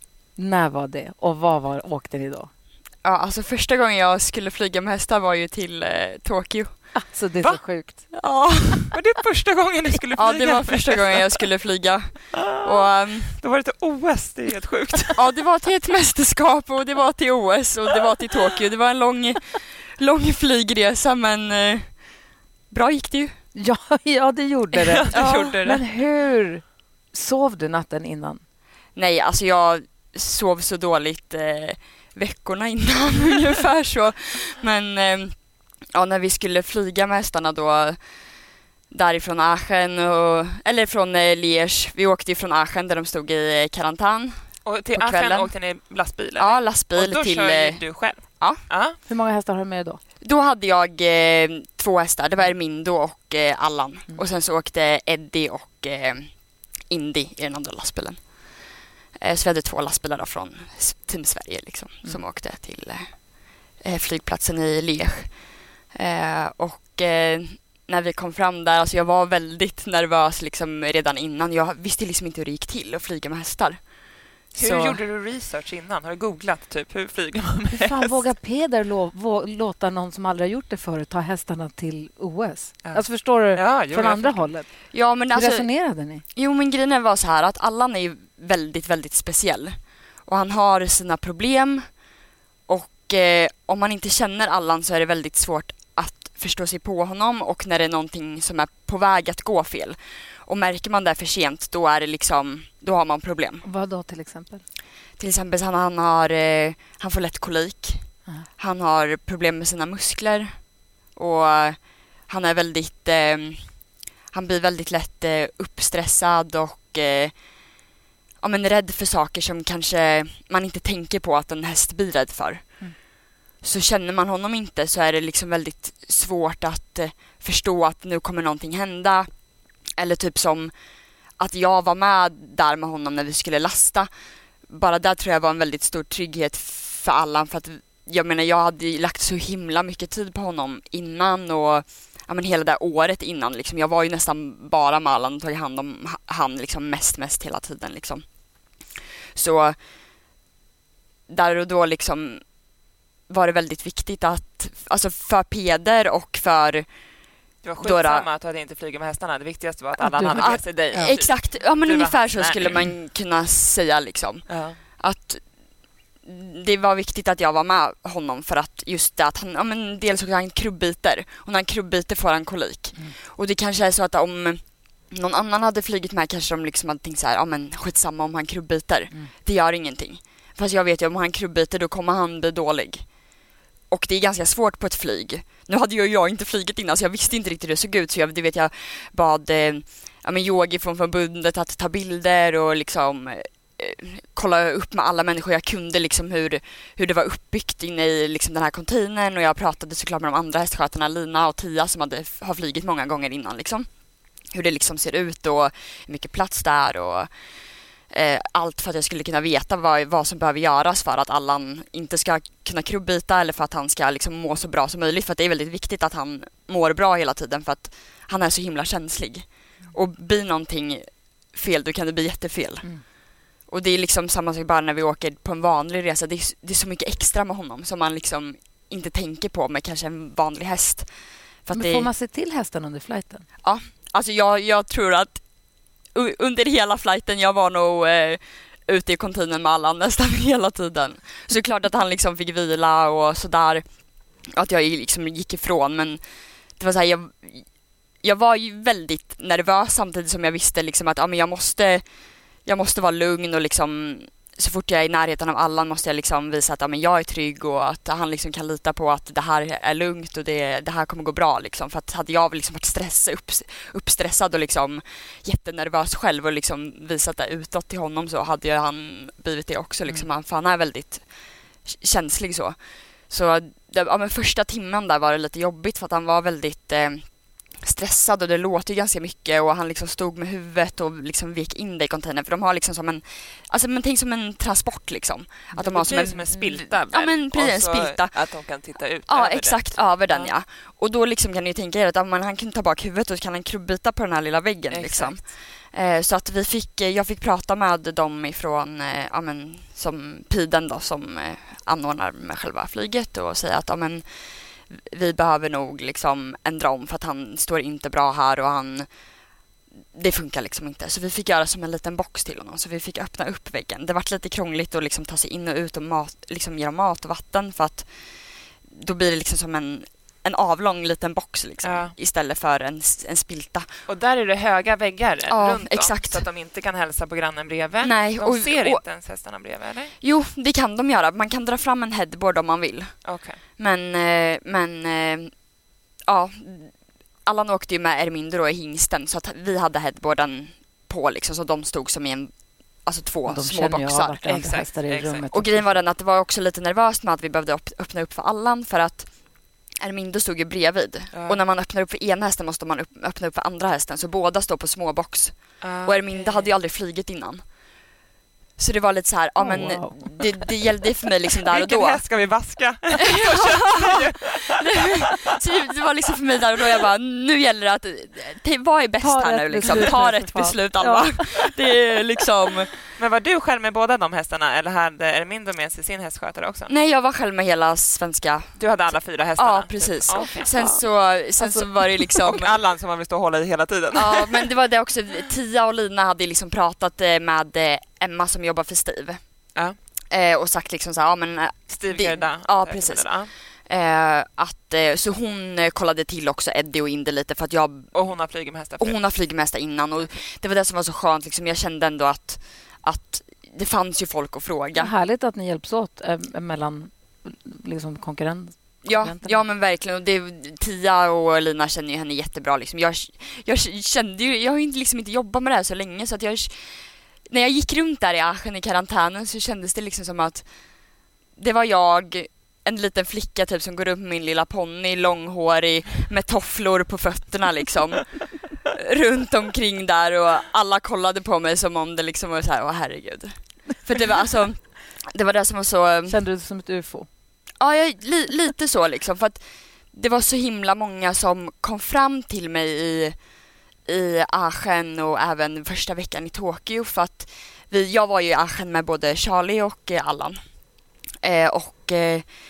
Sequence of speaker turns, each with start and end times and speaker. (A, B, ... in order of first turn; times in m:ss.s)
0:00.4-0:02.5 A
0:03.0-0:06.9 B
0:06.9-0:08.1 A
0:07.4-0:08.1 C
0:08.1-0:08.9 B
0:08.9-0:11.4 C
0:10.2-0:13.4 B
0:12.3-0:15.2 C
0:15.1-0:22.1 B
0:22.7-0:23.4 B
0:23.5-0:28.4 A
0:24.7-0:25.8 C
0:25.1-0:25.6 B
0:28.9-0:35.4 B
0:35.9-0:38.0 B
0:38.9-0:45.5 B
0:44.6-0:49.0 C
0:46.4-0:48.6 B
0:49.0-0:50.0 A
0:50.2-1:15.0 B
1:14.5-1:18.2 C
1:17.8-1:26.2 A
1:22.8-1:24.5 C
1:24.9-1:32.0 B
1:32.7-1:43.6 B
1:43.6-1:44.6 A
1:45.2-1:57.6 B
1:58.4-2:03.0 B
2:03.6-2:09.3 B
2:10.0-2:10.7 B
2:11.4-2:14.1 B
2:14.7-2:29.8 B
2:31.3-2:32.6 B
2:33.3-2:36.9 B
2:37.6-2:42.9 C
2:37.8-2:38.3 B
2:40.0-2:41.1 A
2:40.3-2:45.5 B
2:44.5-2:44.8 C
2:46.2-3:03.2 B
3:03.9-3:27.3 B
3:28.1-3:43.1 B
3:43.6-3:52.1 B
3:51.7-3:53.4 A
3:53.6-3:55.4 B
3:56.1-4:06.2 B
4:06.8-4:48.7 B
4:45.7-4:50.5 C
4:49.3-5:09.1 B
4:54.9-4:55.4 C
5:10.1-5:23.9 B
5:21.8-5:22.1 C
5:24.1-5:30.1 C
5:25.5-5:26.4 B
5:28.0-5:29.0 B
5:30.2-5:35.6 B
5:33.2-5:33.6 C
5:36.2-5:44.4 B
5:43.4-5:46.0 A
5:44.4-5:45.4 C
5:45.5-5:57.8 B
5:51.3-5:51.6 C
5:55.8-5:56.7 C
5:58.8-6:02.2 B
5:59.6-6:00.5 A
6:01.7-6:05.1 C
6:03.3-6:12.9 B
6:09.2-6:11.6 A
6:09.8-6:10.1 C
6:13.2-6:16.9 C
6:16.9-6:18.8 B
6:18.8-6:20.9 C
6:19.6-6:22.8 B
6:20.3-6:21.0 A
6:21.6-6:24.6 C
6:24.1-6:29.4 B
6:30.3-6:38.1 B
6:31.9-6:33.5 C
6:38.1-6:39.2 C
6:39.0-6:45.1 B
6:40.2-6:40.4 C
6:44.9-6:49.6 A
6:49.0-7:00.7 B
7:01.6-7:16.4 B
7:16.3-7:17.3 A
7:17.8-7:23.4 B
7:24.0-7:30.6 B
7:31.4-7:32.5 B